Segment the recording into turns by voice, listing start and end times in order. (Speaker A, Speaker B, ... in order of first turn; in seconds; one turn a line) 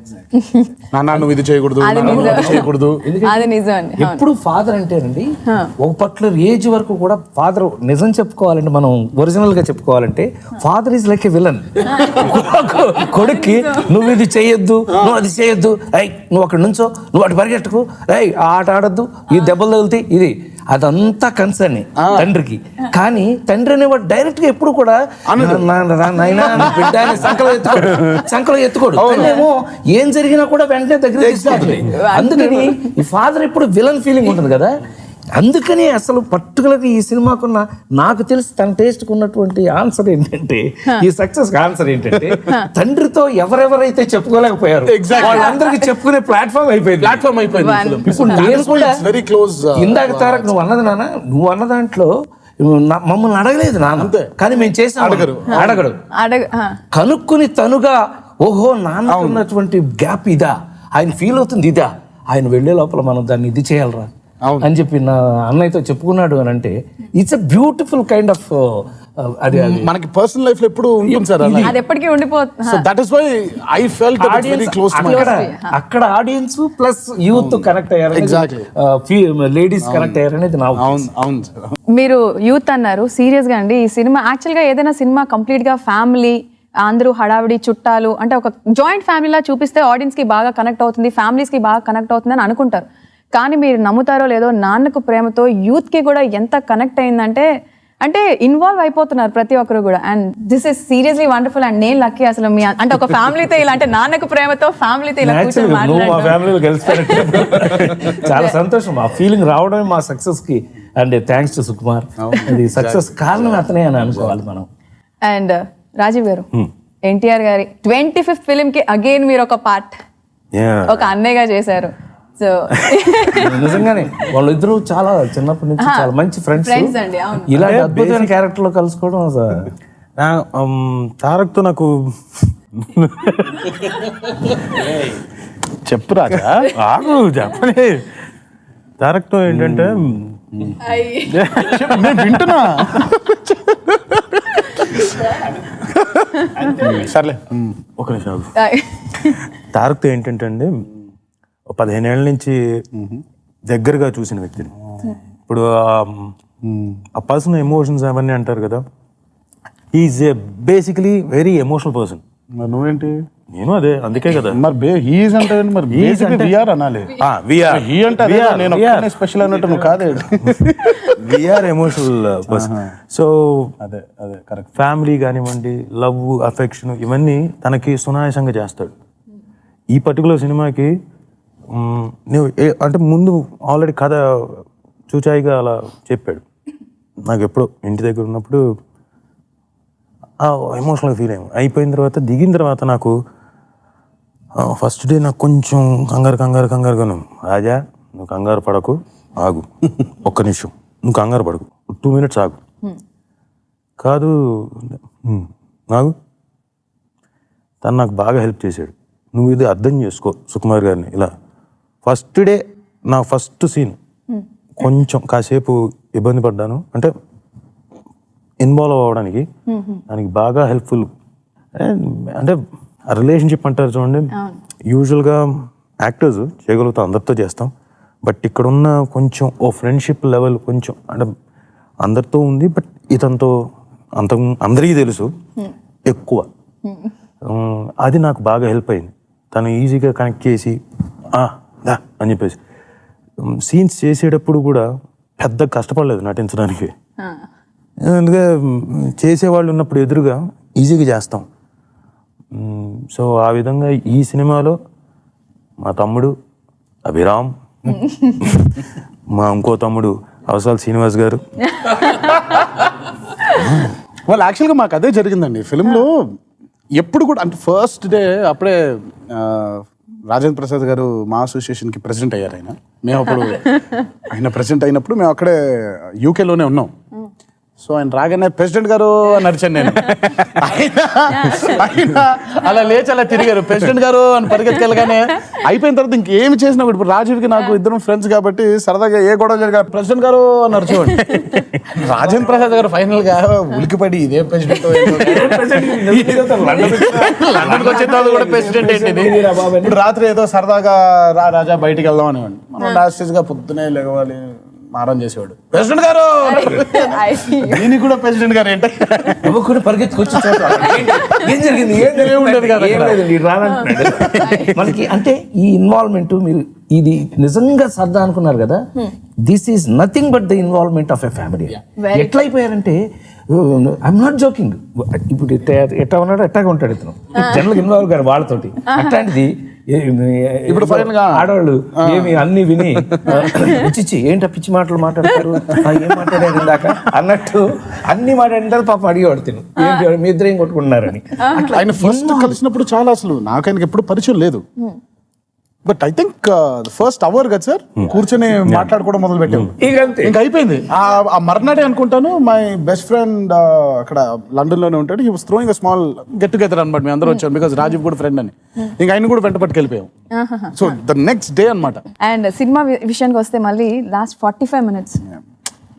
Speaker A: 0.3-0.7
Speaker B: 0.9-3.0
Speaker A: 1.8-2.7
Speaker C: 1.9-5.3
Speaker A: 3.3-4.2
Speaker C: 5.8-34.8
Speaker A: 11.9-12.3
Speaker A: 13.1-13.9
Speaker B: 22.0-22.3
Speaker B: 25.3-25.6
Speaker B: 26.2-28.2
Speaker B: 28.9-29.4
Speaker B: 31.2-31.9
Speaker A: 31.8-32.9
Speaker C: 35.3-47.2
Speaker B: 44.9-45.5
Speaker A: 45.2-45.8
Speaker B: 47.0-50.5
Speaker A: 47.5-48.6
Speaker C: 48.0-49.0
Speaker C: 49.8-56.0
Speaker B: 54.0-54.3
Speaker B: 55.0-55.8
Speaker A: 55.5-56.8
Speaker C: 56.9-64.1
Speaker B: 59.1-59.4
Speaker C: 64.6-69.9
Speaker B: 69.5-71.8
Speaker C: 71.0-71.8
Speaker A: 71.6-72.8
Speaker B: 72.6-75.4
Speaker C: 74.2-81.0
Speaker A: 75.0-75.7
Speaker B: 77.3-78.7
Speaker B: 79.8-80.2
Speaker B: 80.8-81.5
Speaker A: 81.9-97.5
Speaker A: 98.0-106.4
Speaker C: 105.2-114.7
Speaker A: 108.1-108.5
Speaker B: 112.2-114.3
Speaker A: 115.2-116.5
Speaker A: 117.0-119.9
Speaker D: 120.5-121.1
Speaker A: 120.9-123.8
Speaker C: 123.4-127.0
Speaker A: 125.8-127.5
Speaker C: 127.5-129.7
Speaker D: 127.6-128.3
Speaker D: 130.2-131.9
Speaker D: 132.8-134.1
Speaker B: 135.8-136.4
Speaker D: 136.3-138.1
Speaker D: 139.0-140.3
Speaker B: 139.5-140.0
Speaker A: 140.8-141.3
Speaker D: 141.3-142.4
Speaker B: 141.7-145.1
Speaker B: 145.9-147.8
Speaker D: 148.0-148.5
Speaker A: 148.6-149.4
Speaker D: 149.7-150.7
Speaker D: 151.7-152.6
Speaker B: 152.9-153.2
Speaker D: 153.7-154.7
Speaker D: 155.5-156.3
Speaker B: 156.6-157.0
Speaker D: 157.1-158.8
Speaker D: 159.9-162.2
Speaker B: 162.5-163.2
Speaker D: 163.5-164.6
Speaker B: 164.5-167.1
Speaker D: 165.9-166.5
Speaker D: 167.2-169.1
Speaker B: 167.7-171.1
Speaker D: 171.2-173.7
Speaker B: 172.5-172.9
Speaker B: 173.8-174.7
Speaker D: 174.8-178.9
Speaker D: 179.9-180.9
Speaker D: 181.7-186.4
Speaker D: 187.2-188.6
Speaker D: 190.4-193.1
Speaker D: 194.6-202.6
Speaker D: 204.0-206.1
Speaker D: 207.8-211.3
Speaker D: 212.0-214.0
Speaker D: 214.8-217.1
Speaker D: 218.6-219.4
Speaker A: 219.7-220.0
Speaker D: 220.1-221.1
Speaker D: 221.8-222.6
Speaker D: 223.1-224.3
Speaker D: 224.9-227.7
Speaker D: 228.2-231.3
Speaker D: 232.0-233.5
Speaker D: 234.2-235.3
Speaker D: 236.1-236.5
Speaker D: 237.4-240.8
Speaker D: 241.3-242.6
Speaker D: 243.4-244.8
Speaker D: 245.4-246.9
Speaker A: 247.2-247.4
Speaker D: 248.0-251.4
Speaker D: 252.5-254.8
Speaker D: 255.8-256.3
Speaker D: 257.0-258.8
Speaker D: 259.3-261.4
Speaker B: 264.2-266.1
Speaker B: 267.0-273.8
Speaker B: 274.3-276.9
Speaker B: 277.8-309.5
Speaker A: 279.8-280.1
Speaker A: 281.4-281.8
Speaker C: 295.1-300.0
Speaker A: 306.4-307.9
Speaker C: 309.4-318.8
Speaker B: 310.3-311.2
Speaker A: 311.1-311.5
Speaker B: 311.9-313.3
Speaker A: 313.6-314.8
Speaker B: 314.0-314.6
Speaker C: 319.4-323.0
Speaker A: 322.0-322.4
Speaker C: 323.5-342.6
Speaker A: 328.9-329.2
Speaker B: 330.7-331.5
Speaker B: 332.0-332.4
Speaker A: 333.4-333.8
Speaker A: 339.8-340.1
Speaker A: 341.4-341.7
Speaker B: 341.7-344.6
Speaker B: 345.8-360.1
Speaker D: 348.6-348.9
Speaker C: 349.8-350.4
Speaker A: 360.3-360.8
Speaker B: 360.7-362.0
Speaker A: 362.2-365.2